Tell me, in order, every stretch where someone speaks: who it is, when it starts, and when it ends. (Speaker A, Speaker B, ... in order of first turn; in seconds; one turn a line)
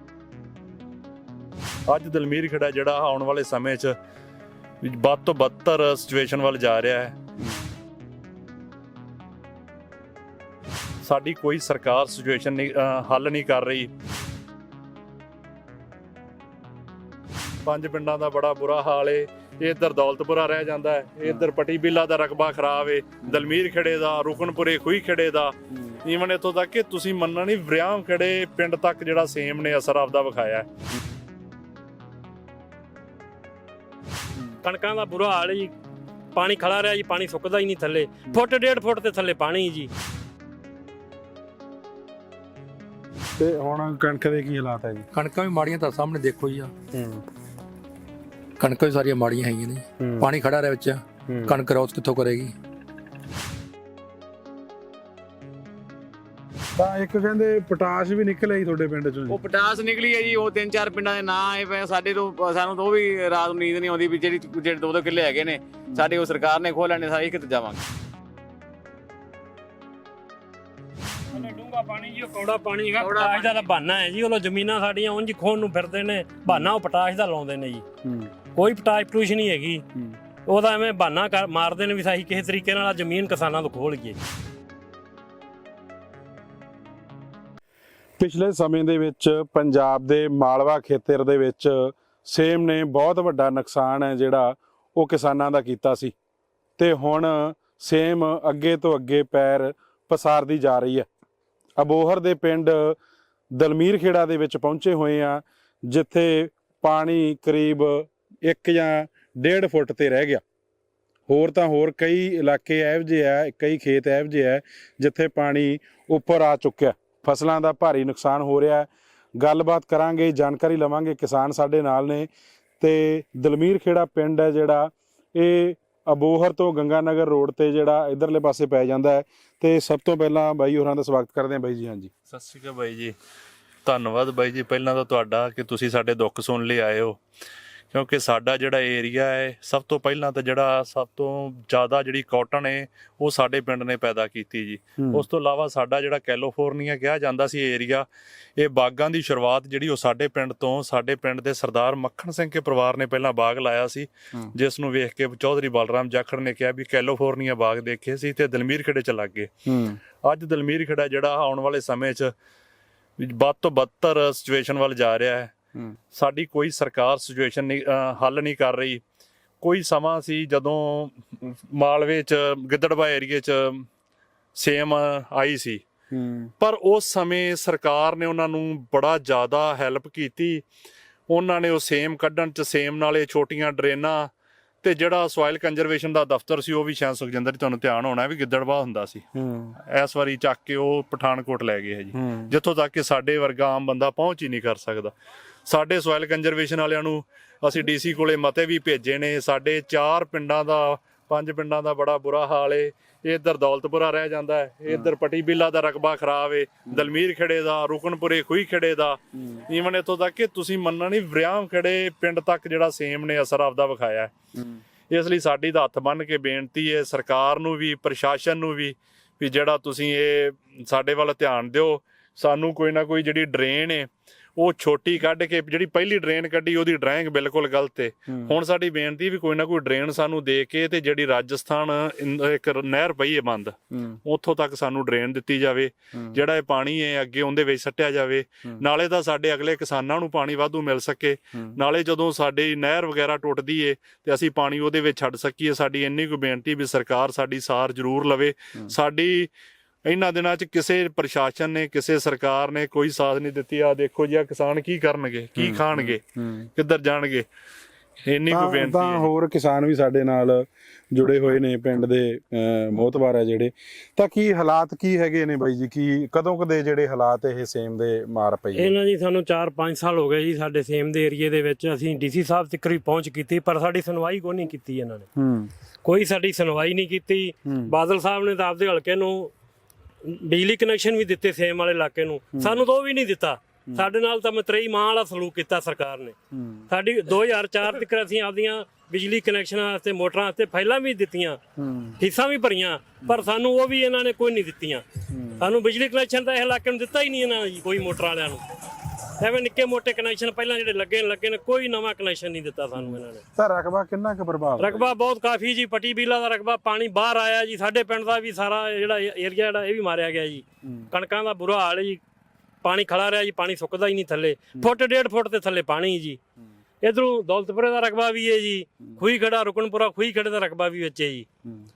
Speaker A: 1.9-3.9
Speaker A: 4.8-7.2
Speaker A: 11.0-13.9
Speaker A: 17.6-30.7
Speaker B: 34.6-35.7
Speaker B: 36.3-39.9
Speaker C: 43.4-45.0
Speaker D: 45.1-46.7
Speaker C: 46.9-47.2
Speaker D: 48.6-52.5
Speaker C: 50.0-50.3
Speaker C: 51.3-51.6
Speaker C: 56.8-59.4
Speaker E: 59.3-67.8
Speaker C: 65.9-66.2
Speaker B: 71.3-77.8
Speaker E: 73.0-73.6
Speaker C: 76.5-76.7
Speaker C: 78.0-78.3
Speaker B: 78.5-79.8
Speaker B: 80.5-84.2
Speaker C: 88.2-96.1
Speaker C: 96.8-101.1
Speaker C: 101.8-103.0
Speaker C: 103.5-110.4
Speaker C: 111.3-122.3
Speaker C: 122.8-132.1
Speaker A: 132.3-133.1
Speaker A: 133.8-137.2
Speaker A: 137.9-159.5
Speaker C: 159.7-160.0
Speaker A: 160.2-162.3
Speaker A: 163.2-165.5
Speaker A: 166.1-169.0
Speaker A: 169.6-173.8
Speaker A: 174.5-175.8
Speaker C: 176.1-176.5
Speaker A: 176.6-180.6
Speaker A: 181.3-184.3
Speaker A: 184.8-189.2
Speaker C: 189.4-189.8
Speaker A: 189.9-195.1
Speaker C: 192.2-192.5
Speaker A: 195.7-214.3
Speaker A: 215.1-249.5
Speaker A: 250.1-256.2
Speaker C: 255.6-256.6
Speaker A: 256.8-257.4
Speaker A: 258.3-259.3
Speaker C: 258.5-268.9
Speaker B: 268.8-275.3
Speaker C: 275.4-275.7
Speaker B: 276.0-279.5
Speaker C: 277.7-277.9
Speaker B: 280.2-286.4
Speaker C: 282.6-282.8
Speaker C: 286.5-286.9
Speaker B: 286.9-291.6
Speaker C: 291.8-292.2
Speaker B: 292.2-295.0
Speaker C: 295.3-295.7
Speaker B: 295.6-298.6
Speaker B: 299.4-303.4
Speaker C: 302.9-305.1
Speaker B: 304.8-312.2
Speaker B: 312.8-316.4
Speaker B: 317.0-321.4